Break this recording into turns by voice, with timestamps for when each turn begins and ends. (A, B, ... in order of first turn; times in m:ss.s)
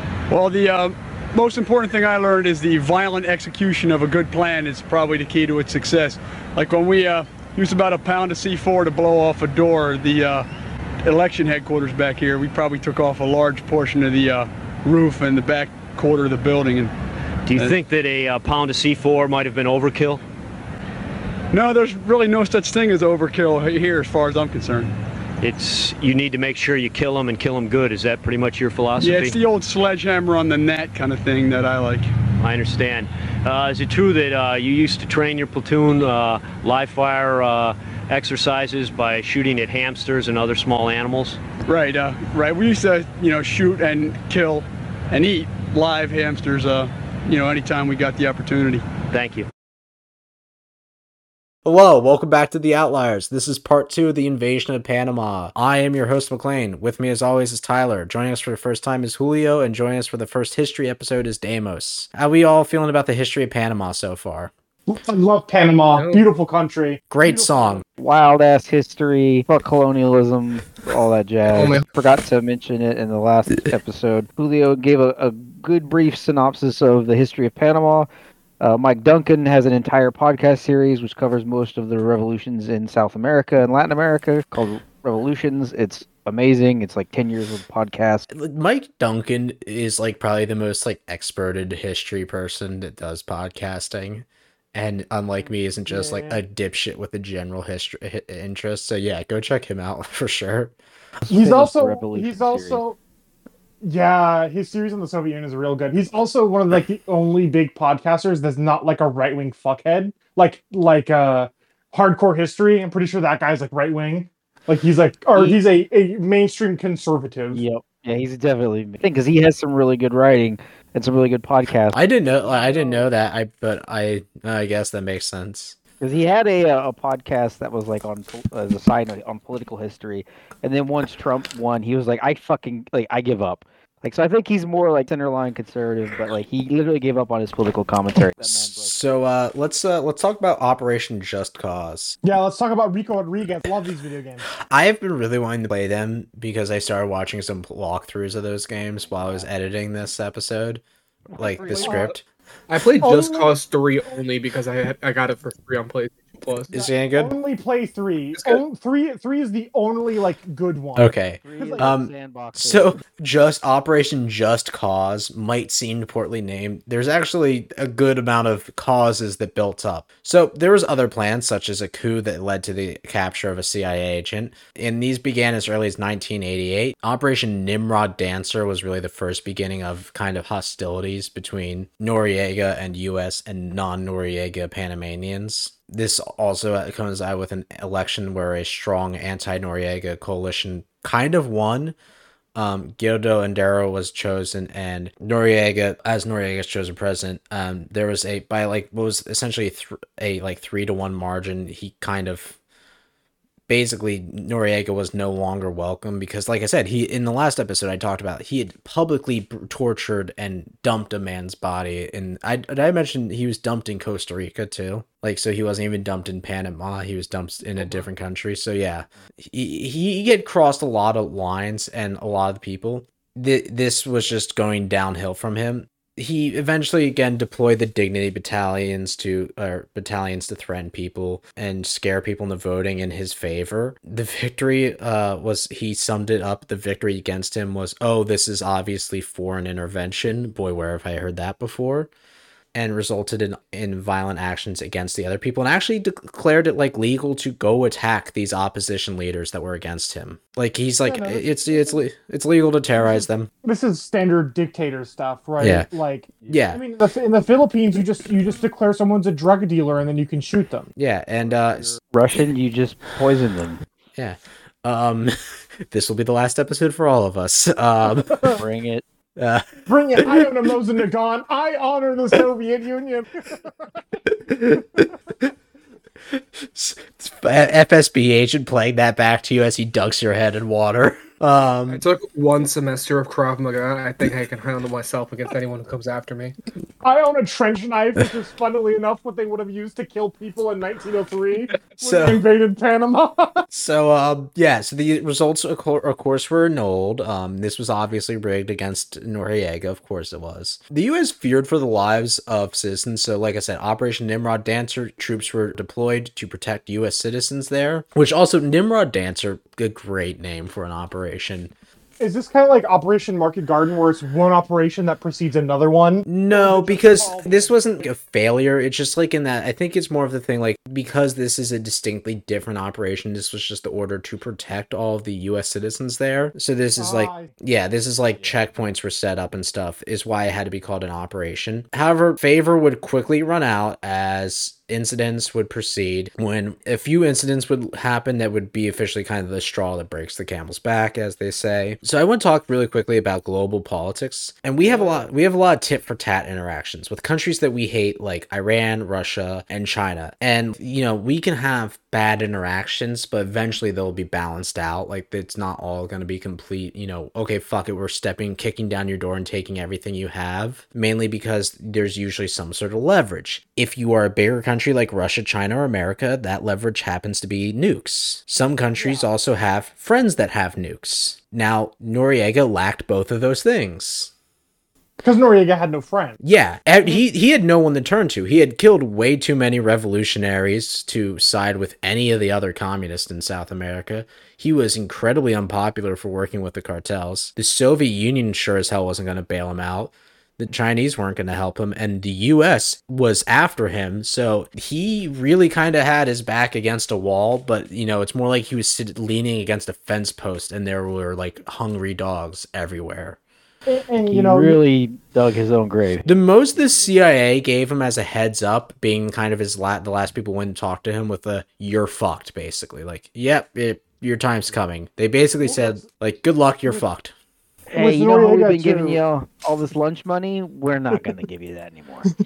0:00.3-0:10.4 A
0:11.0-0:16.9 A
0:17.5-0:20.2 B
0:21.5-0:24.9 A
0:25.4-0:29.4 B
0:29.0-0:32.1 A
0:32.4-0:41.4 B
0:41.7-0:48.8 A
0:49.1-0:49.5 B
0:51.6-1:04.5 C
1:04.9-1:07.8 D
1:05.9-1:06.2 E
1:07.1-1:07.8 C
1:08.0-1:18.1 F
1:11.5-1:11.8 E
1:18.6-1:28.2 F
1:28.3-1:40.7 C
1:35.8-1:36.4 D
1:41.3-1:43.0 D
1:41.3-1:42.8 F
1:43.8-1:57.6 D
1:57.5-2:02.0 F
2:01.9-2:05.8 C
2:02.2-2:03.0 D
2:06.0-2:19.0 F
2:18.4-2:22.2 C
2:22.2-2:24.5 D
2:24.6-2:30.8 C
2:31.3-2:32.1 F
2:31.4-2:32.2 C
2:31.8-2:32.1 D
2:32.7-2:36.7 E
2:33.0-2:33.5 D
2:36.7-2:37.3 C
2:36.7-2:41.9 D
2:41.0-3:11.9 C
2:41.4-2:43.0 F
3:12.5-3:22.6 C
3:23.7-4:02.1 C
3:37.8-3:38.1 E
4:02.7-4:13.5 C
4:11.0-4:12.0 D
4:13.6-4:20.9 D
4:15.6-4:15.9 C
4:16.5-4:16.8 C
4:21.0-4:22.0 C
4:21.5-4:23.8 F
4:24.1-4:25.3 C
4:25.9-4:28.6 C
4:28.6-4:29.0 F
4:29.4-4:30.5 C
4:29.9-4:34.0 D
4:34.2-4:35.5 C
4:36.3-4:42.0 C
4:41.9-4:46.5 E
4:47.0-4:53.6 D
4:52.0-4:52.4 C
4:53.7-5:11.7 C
5:12.2-5:18.1 D
5:16.2-6:14.3 C
5:27.0-5:27.5 D
6:09.0-6:09.3 D
6:15.2-6:16.4 D
6:16.4-6:43.4 C
6:43.9-6:44.8 D
6:44.2-6:47.1 F
6:46.2-6:57.3 C
6:55.6-6:56.0 D
6:57.9-7:02.3 F
6:58.0-6:59.2 D